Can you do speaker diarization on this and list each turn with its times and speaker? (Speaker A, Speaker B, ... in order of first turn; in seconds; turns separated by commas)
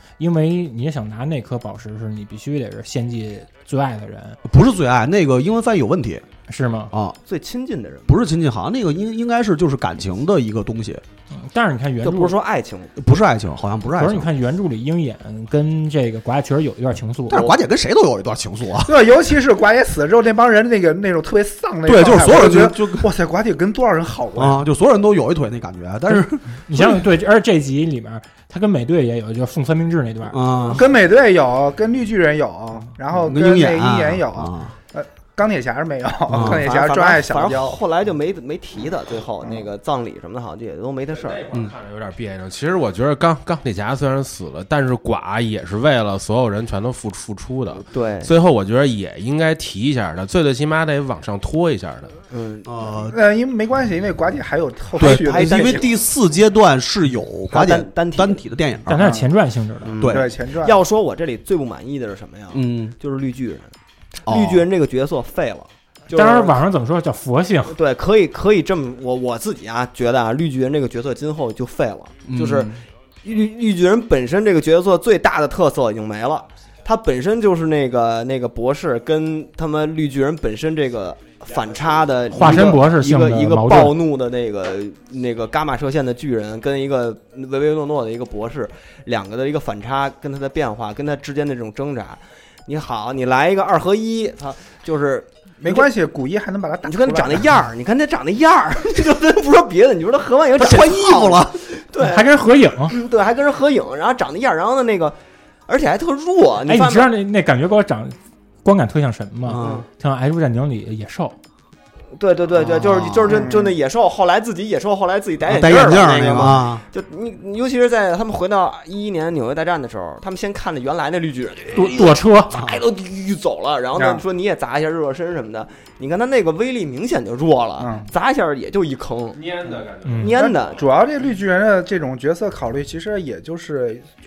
Speaker A: 0.2-4.4, Speaker B: 4.4-6.2, Speaker A: 6.5-6.9, Speaker B: 6.9-7.2, Speaker C: 7.3-8.2, Speaker B: 8.1-11.0, Speaker A: 11.3-12.3, Speaker C: 12.0-13.0, Speaker B: 13.0-14.3, Speaker A: 13.9-17.5, Speaker B: 17.3-18.9, Speaker D: 18.8-24.6, Speaker B: 21.9-23.1, Speaker B: 24.3-27.0, Speaker A: 26.7-30.4, Speaker B: 30.3-30.9, Speaker D: 30.7-37.8, Speaker B: 33.1-34.7, Speaker B: 36.3-36.6, Speaker C: 36.3-41.5, Speaker E: 41.2-52.1, Speaker C: 47.8-48.3, Speaker C: 52.3-53.0, Speaker B: 52.6-53.2, Speaker D: 53.1-55.9, Speaker C: 55.0-55.9, Speaker B: 55.0-59.2, Speaker C: 57.5-58.4, Speaker A: 58.9-60.0, Speaker D: 59.0-59.3, Speaker C: 59.8-63.7, Speaker B: 60.0-60.3, Speaker D: 60.0-60.8, Speaker B: 62.5-62.9, Speaker C: 64.2-66.6, Speaker B: 64.3-64.7, Speaker A: 66.1-67.8, Speaker C: 67.7-95.9, Speaker B: 72.3-72.8, Speaker A: 82.3-84.0, Speaker D: 95.6-97.5, Speaker C: 96.8-102.3, Speaker B: 100.6-101.6, Speaker A: 102.0-103.0, Speaker C: 102.8-105.2, Speaker C: 105.7-107.1, Speaker A: 106.7-111.3, Speaker B: 109.5-109.8, Speaker C: 109.5-109.8, Speaker C: 112.1-129.5, Speaker B: 112.6-113.5, Speaker D: 113.3-113.8, Speaker B: 115.4-116.8, Speaker A: 121.7-122.5, Speaker B: 122.5-122.8, Speaker D: 124.0-124.2, Speaker D: 127.8-128.1, Speaker E: 129.3-130.3, Speaker A: 130.0-130.3, Speaker C: 130.2-130.8, Speaker D: 130.3-134.1